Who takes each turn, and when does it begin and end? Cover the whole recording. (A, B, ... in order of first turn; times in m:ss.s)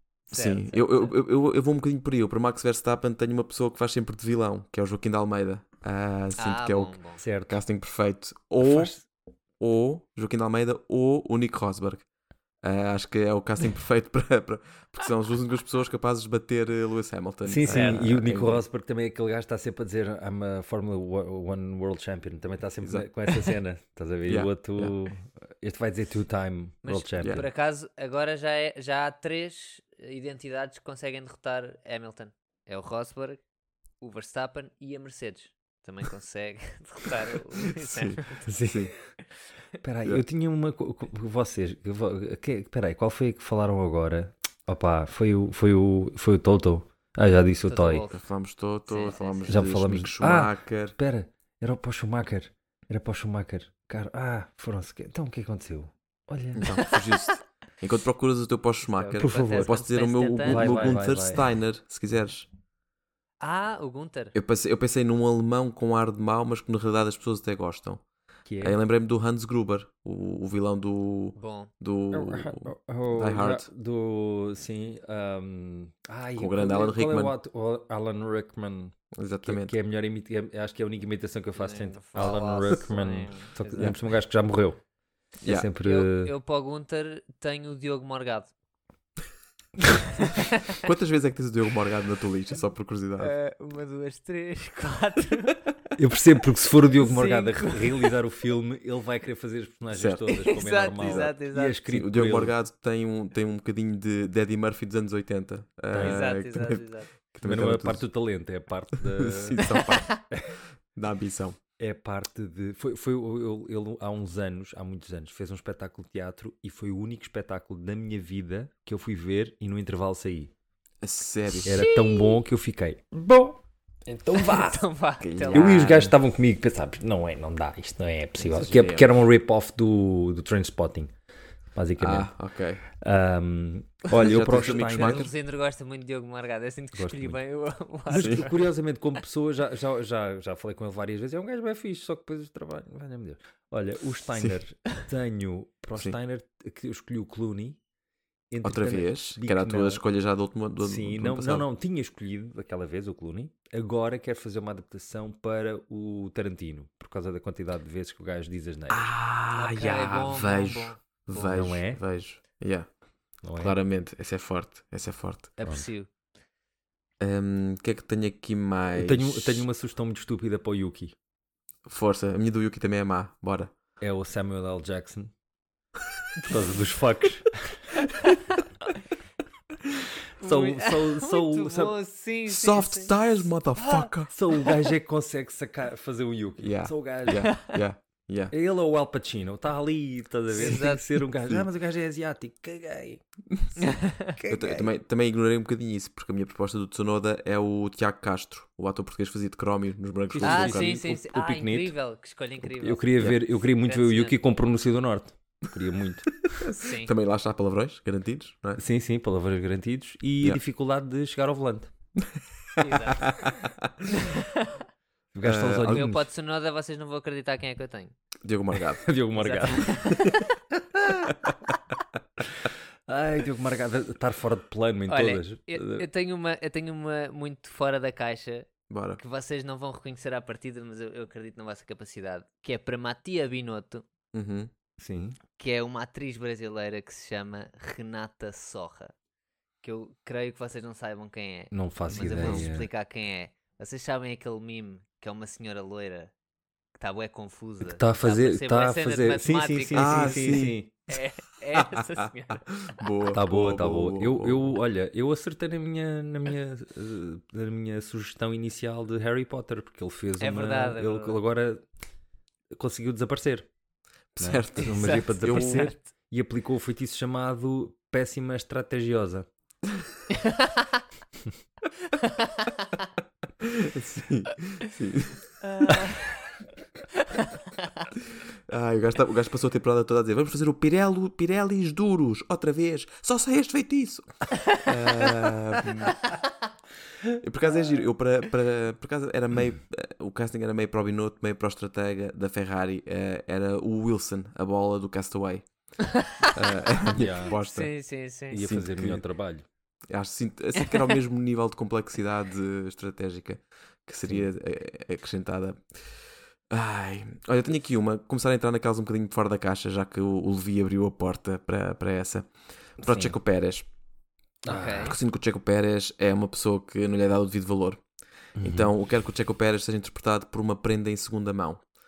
0:00.3-0:01.1 A
0:00.3-0:09.0 B
0:06.4-0:07.2 A
0:07.2-0:07.6 C
0:08.6-0:09.0 C
0:09.6-0:12.0 B
0:12.6-0:18.6 B
0:17.4-0:27.5 C
0:17.6-0:18.1 A
0:22.8-0:23.3 B
0:24.3-0:24.9 B
0:26.8-0:33.4 A
0:34.0-0:38.5 A
0:37.8-0:38.9 B
0:38.5-0:38.9 C
0:39.8-0:48.0 C
0:47.7-0:48.2 A
0:48.1-0:51.0 B
0:48.9-0:49.6 A
0:49.5-0:57.0 C
0:56.5-1:02.5 B
0:58.8-1:01.0 A
0:59.2-0:59.7 C
1:00.4-1:01.4 C
1:03.4-1:04.3 A
1:04.3-1:08.0 B
1:08.4-1:08.8 C
1:08.6-1:13.7 B
1:11.4-1:11.7 A
1:12.1-1:24.8 C
1:16.4-1:17.3 B
1:19.1-1:19.8 B
1:21.6-1:24.0 A
1:25.4-1:25.7 B
1:25.4-1:26.3 C
1:25.8-1:28.5 A
1:29.8-1:30.8 A
1:30.7-1:33.3 B
1:33.2-1:35.6 A
1:36.0-1:42.5 C
1:37.0-1:38.1 A
1:39.9-1:40.3 B
1:40.3-1:41.8 A
1:41.0-1:48.1 B
1:45.9-1:46.3 C
1:46.0-1:47.1 A
1:47.4-1:49.8 C
1:49.0-1:50.2 B
1:49.9-1:50.2 A
1:50.9-1:51.6 B
1:51.8-2:00.5 C
2:01.0-2:01.9 B
2:01.6-2:04.8 C
2:01.6-2:02.4 A
2:04.3-2:06.1 A
2:05.2-2:06.0 B
2:05.5-2:11.1 C
2:08.4-2:09.1 B
2:11.7-2:12.3 C
2:12.0-2:12.8 B
2:12.8-2:15.3 C
2:14.1-2:15.3 B
2:14.6-2:18.7 A
2:17.0-2:17.4 C
2:18.1-2:27.8 C
2:18.2-2:18.5 B
2:28.5-2:30.0 C
2:28.6-2:31.7 B
2:30.8-2:39.1 C
2:38.9-2:42.9 B
2:39.5-2:41.0 A
2:41.4-2:42.0 C
2:43.4-2:43.7 C
2:43.5-2:45.6 B
2:45.6-2:46.1 A
2:47.2-2:49.7 B
2:48.9-2:51.1 C
2:51.8-2:53.7 B
2:54.0-2:55.3 C
2:56.4-2:58.0 C
3:00.4-3:02.0 C
3:00.4-3:03.1 A
3:02.5-3:04.3 B
3:04.3-3:07.5 C
3:06.6-3:08.5 B
3:07.4-3:07.8 A
3:08.5-3:13.2 C
3:10.5-3:11.0 A
3:13.8-3:14.3 A
3:14.4-3:14.9 C
3:14.5-3:21.0 B
3:20.3-3:21.9 C
3:20.4-3:24.4 A
3:22.6-3:26.3 C
3:26.5-3:28.8 B
3:26.6-3:27.1 A
3:28.8-3:31.9 C
3:32.8-3:34.1 B
3:32.8-3:33.5 A
3:34.1-3:34.8 A
3:35.3-3:36.2 C
3:35.4-3:36.0 B
3:35.9-3:38.1 A
3:38.4-3:39.1 B
3:39.0-3:40.2 C
3:39.4-3:40.5 A
3:40.7-3:41.3 C
3:42.6-3:46.1 C
3:45.1-3:54.0 A
3:48.9-3:49.2 B
3:54.3-3:54.7 B
3:55.0-3:55.4 C
3:55.6-3:59.1 A
3:59.8-4:06.3 A
4:01.7-4:02.9 C
4:02.1-4:02.6 B
4:07.0-4:12.6 A
4:07.8-4:10.9 C
4:09.9-4:10.8 B
4:11.7-4:14.8 B
4:13.3-4:21.8 C
4:20.4-4:21.4 A
4:22.7-4:23.7 C
4:24.4-4:25.9 B
4:24.4-4:29.5 C
4:24.8-4:26.0 A
4:30.3-4:31.0 A
4:32.2-4:32.7 A
4:33.6-4:36.0 B
4:35.6-4:36.5 A
4:37.2-4:38.1 A
4:38.7-4:46.2 B
4:47.4-4:55.6 B
4:56.0-4:56.6 A
4:56.4-4:57.9 B
4:57.1-4:57.6 C
4:57.5-4:58.6 A
4:58.5-4:59.6 C
4:58.6-4:59.2 B
5:00.1-5:05.8 B
5:00.8-5:01.1 A
5:06.7-5:12.5 B
5:13.0-5:13.4 C
5:13.0-5:13.8 B
5:14.6-5:15.2 A
5:14.6-5:15.2 C
5:15.0-5:18.0 B
5:18.6-5:18.9 C
5:18.6-5:21.8 B